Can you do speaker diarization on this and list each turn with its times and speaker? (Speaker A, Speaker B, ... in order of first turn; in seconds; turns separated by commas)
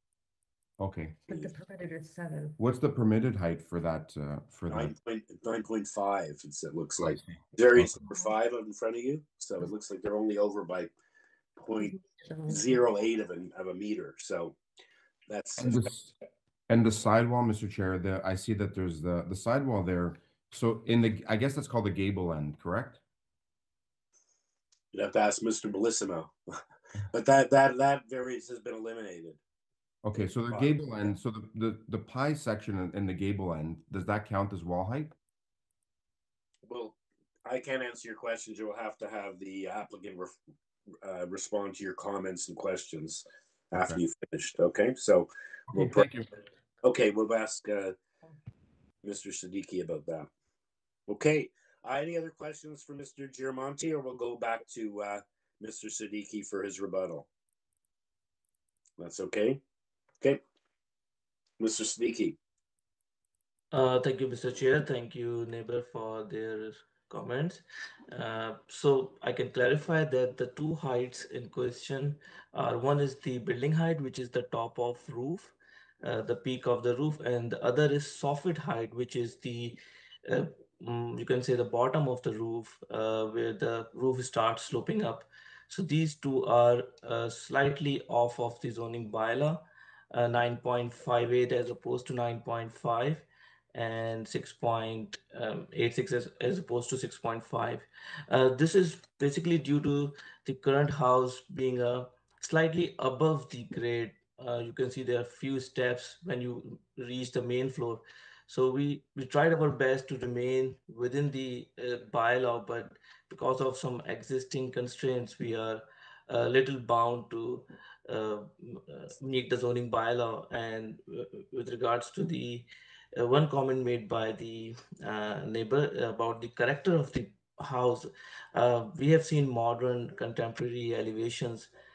Speaker A: 0.8-1.2, Speaker B: 1.3-2.6, Speaker A: 2.6-4.9, Speaker C: 4.7-10.9, Speaker A: 7.0-8.0, Speaker C: 11.6-11.9, Speaker B: 11.8-12.8, Speaker C: 12.5-14.6, Speaker C: 15.3-15.9, Speaker A: 15.6-16.1, Speaker A: 16.7-23.0, Speaker C: 24.9-26.3, Speaker C: 27.1-29.4, Speaker A: 30.0-35.1, Speaker C: 36.6-40.3, Speaker C: 41.0-46.1, Speaker C: 46.8-48.0, Speaker C: 49.0-50.3, Speaker C: 51.1-57.3, Speaker C: 59.0-59.6, Speaker C: 61.6-62.4, Speaker D: 63.7-131.7